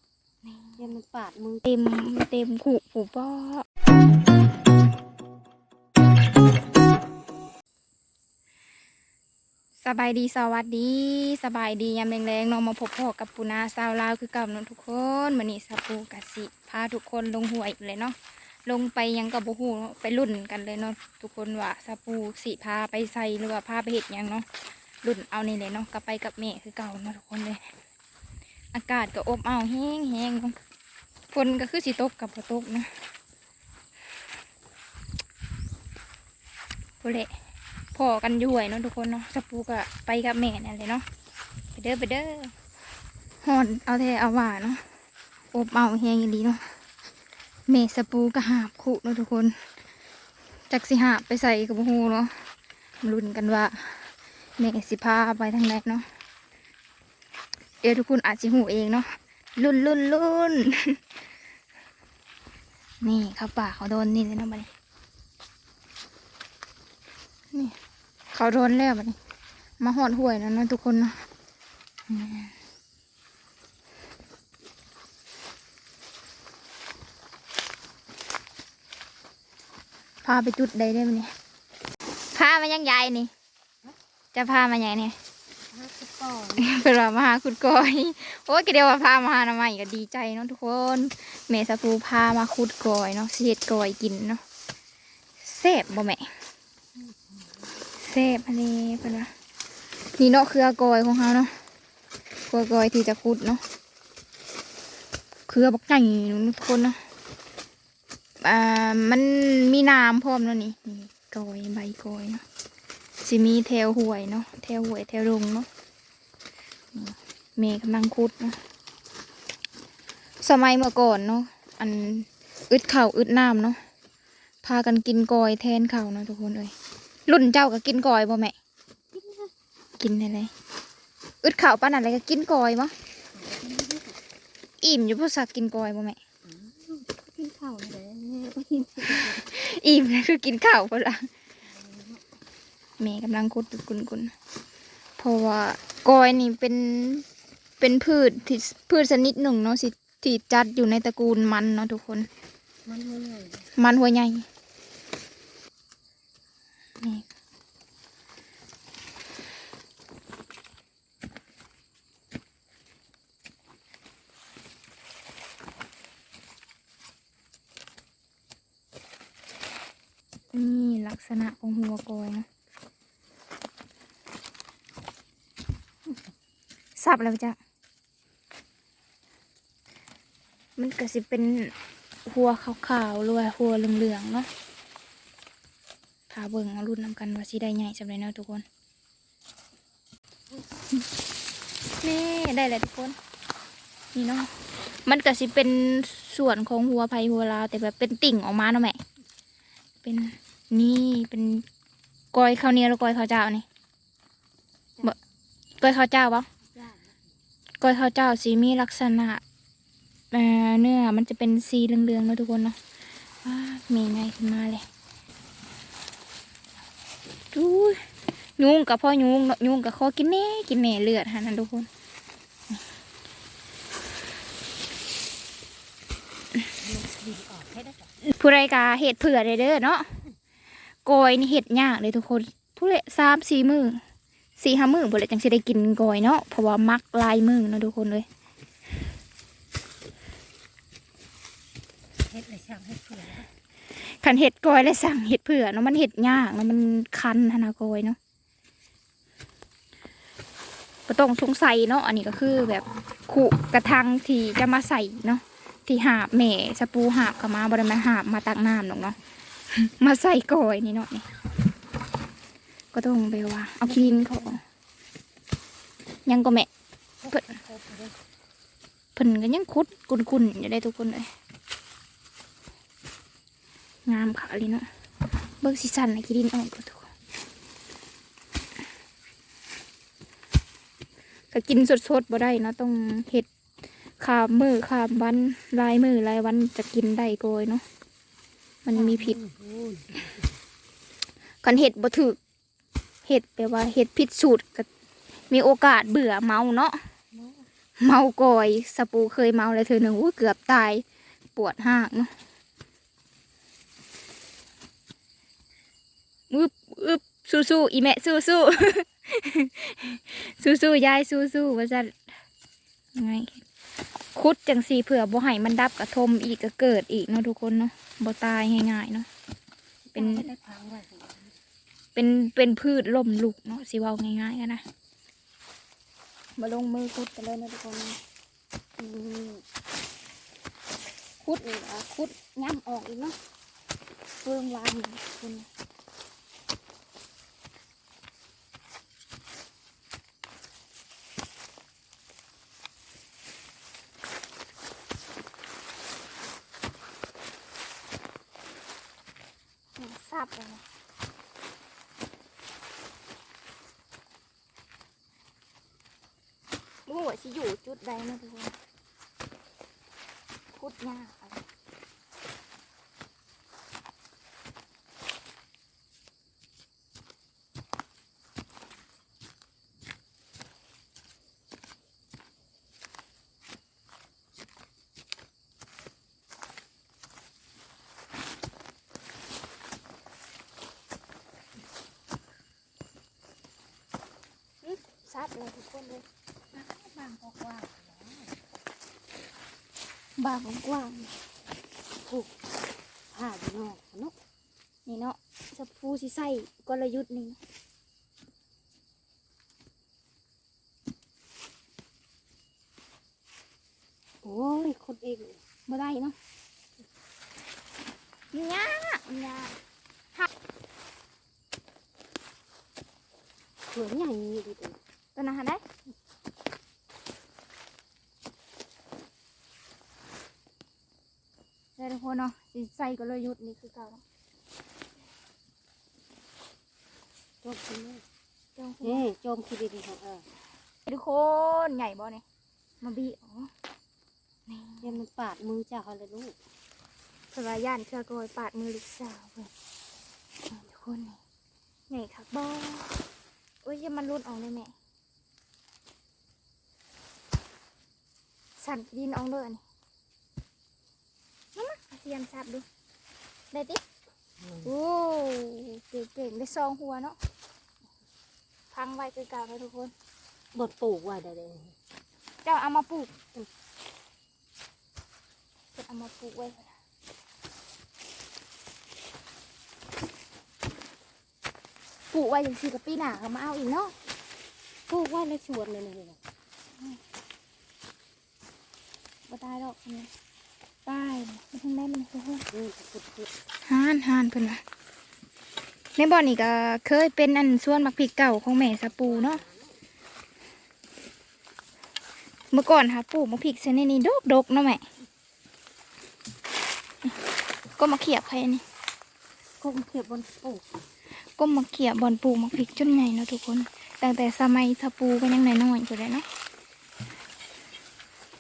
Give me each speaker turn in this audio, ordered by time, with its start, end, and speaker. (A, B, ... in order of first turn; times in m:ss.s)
0:00.4-0:00.8 A
0:00.8-0:01.6 B
0:01.6-0:03.6 A
0:09.8-0:24.5 A
0:25.0-0:27.7 A
0:28.7-0:30.6 A
0:31.3-0:32.9 A
0:37.0-0:37.3 A
0:37.9-0:41.0 A
0:41.8-0:42.5 A
0:43.4-0:44.8 A
0:45.5-0:46.6 A
0:47.7-0:49.6 A
0:50.7-0:52.3 A
0:53.0-0:56.1 A
0:57.8-1:01.0 A
1:03.0-1:04.7 A
1:08.3-1:09.2 A
1:09.8-1:11.2 A
1:12.1-1:12.5 A
1:20.2-1:21.3 A
1:22.3-1:23.3 A
1:24.3-1:25.2 A
1:25.7-1:26.7 B
1:26.6-1:34.4 A
1:35.4-1:36.3 A
1:38.0-1:39.3 A
1:40.2-1:41.5 A
1:42.5-1:43.6 A
1:45.5-1:47.0 A
1:48.4-1:52.4 A
1:53.2-1:55.7 A
1:56.9-1:58.6 A
2:00.4-2:03.8 A
2:04.6-2:06.7 A
2:07.3-2:08.6 A
2:09.1-2:09.5 B
2:10.0-2:10.5 A
2:11.4-2:12.9 A
2:13.3-2:14.2 B
2:14.8-2:16.2 A
2:16.5-2:19.4 B
2:19.1-2:21.3 A
2:21.7-2:22.2 B
2:23.0-2:24.3 A
2:25.2-2:27.3 A
2:27.8-2:32.3 A
2:32.9-2:33.7 B
2:33.8-2:34.4 A
2:50.5-2:52.5 A
2:57.0-2:57.6 A
3:00.8-3:01.7 A
3:02.2-3:04.5 A
3:06.3-3:08.6 A
3:12.0-3:13.2 A
3:14.1-3:14.5 A
3:15.1-3:19.0 A
3:20.0-3:21.6 A
3:22.3-3:23.6 A
3:25.8-3:26.5 A
3:26.7-3:27.2 B
3:27.8-3:29.4 A
3:30.3-3:32.8 A
3:33.4-3:34.8 A
3:37.5-3:38.1 A
3:38.6-3:41.9 A
3:46.8-3:48.1 B
3:48.2-3:50.1 A
3:51.0-3:54.0 A
3:54.6-3:58.3 A
4:02.3-4:03.5 B
4:04.0-4:08.2 A
4:11.1-4:19.2 A
4:19.7-4:21.3 A
4:22.9-4:24.6 A
4:23.9-4:24.6 B
4:26.3-4:26.7 A
4:27.2-4:28.1 B
4:27.3-4:27.6 A
4:29.2-4:31.3 A
4:34.1-4:34.9 A
4:35.6-4:37.1 A
4:41.5-4:43.5 A
4:44.2-4:47.8 A
4:48.9-4:49.4 A
4:48.9-4:50.2 B
4:51.6-4:52.4 A
4:53.2-4:54.9 A
4:55.5-4:57.0 A
4:57.3-4:57.7 B
4:58.0-5:02.3 A
5:06.5-5:12.2 A
5:13.2-5:13.6 A
5:14.4-5:19.3 A
5:20.1-5:21.6 B
5:20.2-5:20.5 A
5:22.2-5:24.8 A
5:26.6-5:28.2 A
5:29.0-5:29.6 B
5:31.4-5:33.4 A
5:34.4-5:35.7 A
5:50.0-5:50.8 A
5:57.1-5:58.8 A
6:00.8-6:01.6 A
6:24.8-6:26.2 A
6:26.7-6:28.6 B
6:30.4-6:31.3 A
6:32.2-6:32.5 B
6:33.3-6:34.4 B
6:35.1-6:37.6 A
6:44.4-6:45.6 B
6:45.9-6:46.4 A
6:48.5-6:49.7 A
6:53.9-6:55.0 B
6:55.4-6:55.8 A
7:02.0-7:04.2 A
7:07.6-7:08.2 B
7:08.8-7:09.2 A
7:09.0-7:10.5 B
7:11.1-7:12.4 A
7:13.0-7:13.7 A
7:14.7-7:15.2 A
7:15.0-7:16.6 B
7:17.5-7:19.7 A
7:20.7-7:21.4 A
7:22.1-7:23.3 A
7:23.8-7:24.9 A
7:28.8-7:29.8 A
7:31.8-7:32.9 A
7:33.7-7:34.0 A
7:34.6-7:34.9 B
7:34.8-7:37.4 A
7:38.9-7:40.1 A
7:40.7-7:42.0 B
7:42.6-7:43.3 A
7:45.9-7:46.9 A
7:52.3-7:54.1 A
7:55.1-7:56.4 B
7:59.5-8:00.3 A
8:01.1-8:02.7 A
8:02.7-8:03.5 B
8:03.8-8:04.8 A
8:06.2-8:09.6 A
8:12.7-8:15.0 A
8:18.0-8:18.8 A
8:19.8-8:20.9 B
8:21.6-8:26.4 A